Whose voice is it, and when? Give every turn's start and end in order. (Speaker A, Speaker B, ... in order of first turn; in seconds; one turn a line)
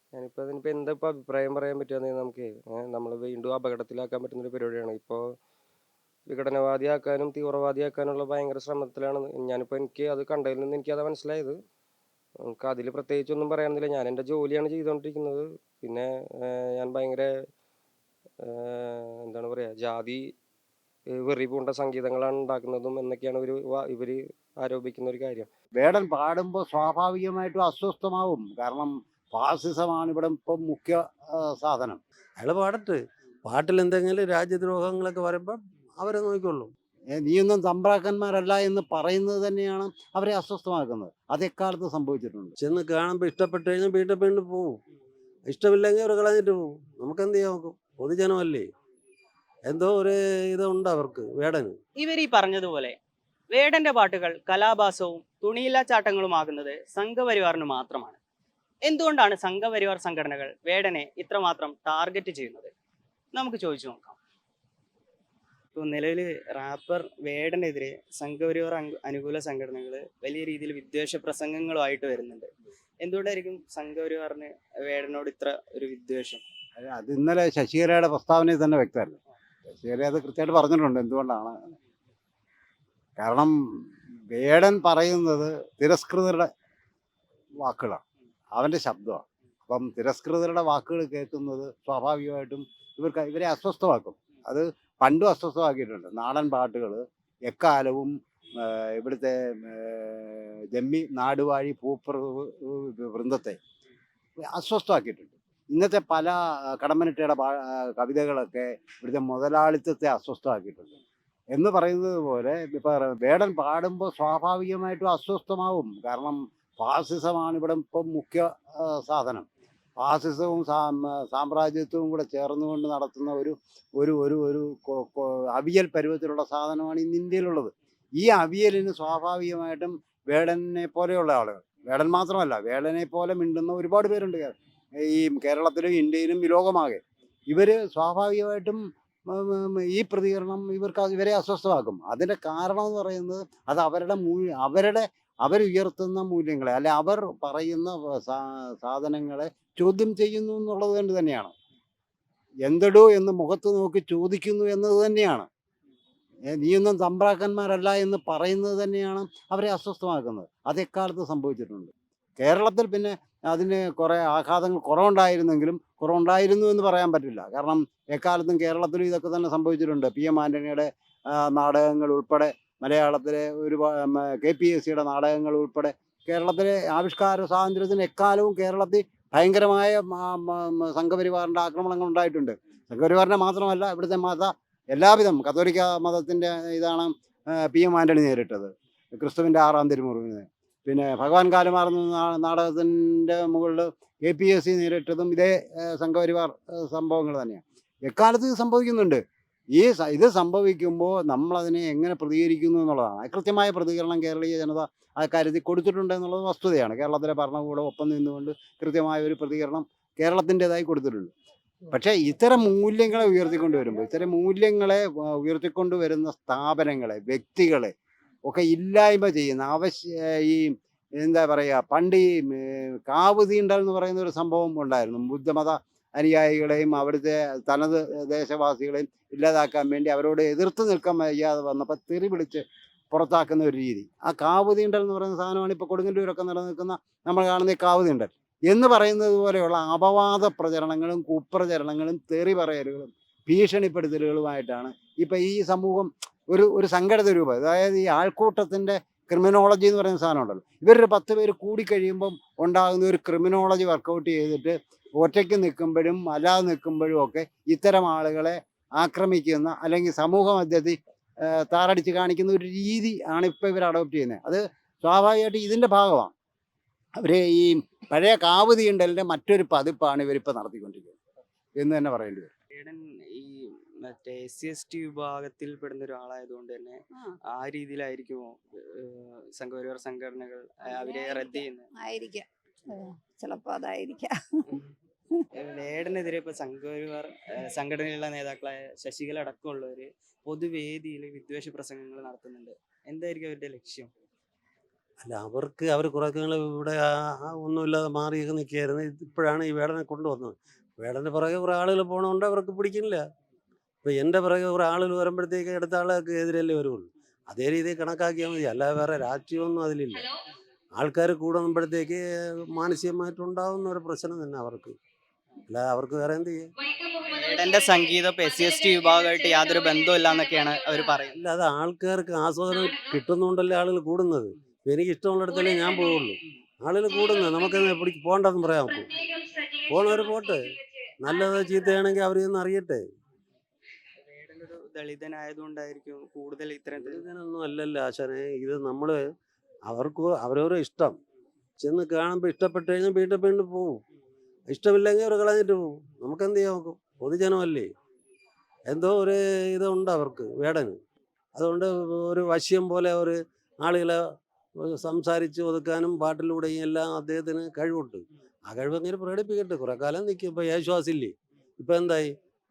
Speaker A: 0.1-5.3
Speaker A: 6.3-11.6
Speaker A: 12.4-17.3
Speaker A: 18.4-20.3
Speaker A: 21.1-25.5
Speaker B: 25.8-32.0
Speaker C: 32.4-36.7
Speaker B: 37.1-42.5
Speaker C: 42.6-44.8
Speaker C: 45.5-48.7
Speaker C: 49.6-51.8
Speaker D: 52.0-53.0
Speaker D: 53.5-58.2
Speaker D: 58.8-62.7
Speaker D: 63.3-64.2
Speaker D: 65.7-72.5
Speaker D: 73.0-76.4
Speaker B: 76.8-79.2
Speaker B: 79.7-81.5
Speaker B: 83.2-83.5
Speaker B: 84.3-86.5
Speaker B: 87.6-88.0
Speaker B: 88.5-103.6
Speaker B: 104.5-110.9
Speaker B: 111.5-119.5
Speaker B: 120.0-151.5
Speaker B: 152.6-155.5
Speaker B: 156.5-199.2
Speaker B: 199.7-211.3
Speaker B: 211.9-217.9
Speaker B: 218.4-261.0
Speaker B: 261.5-266.3
Speaker B: 267.2-271.2
Speaker B: 271.8-272.5
Speaker D: 272.7-281.9
Speaker E: 280.9-284.6
Speaker D: 285.6-294.1
Speaker C: 295.2-303.2
Speaker C: 304.0-310.3
Speaker C: 310.9-314.9
Speaker C: 315.7-316.7
Speaker E: 316.8-320.6
Speaker D: 317.3-321.3
Speaker C: 321.3-329.1
Speaker E: 322.7-323.1
Speaker E: 325.5-326.2
Speaker E: 327.1-328.0
Speaker E: 328.8-332.1
Speaker C: 329.9-333.0
Speaker D: 334.2-337.3
Speaker C: 337.0-339.2
Speaker C: 339.9-341.2
Speaker C: 341.8-344.0
Speaker C: 344.7-347.9
Speaker C: 348.9-351.0
Speaker C: 351.5-362.3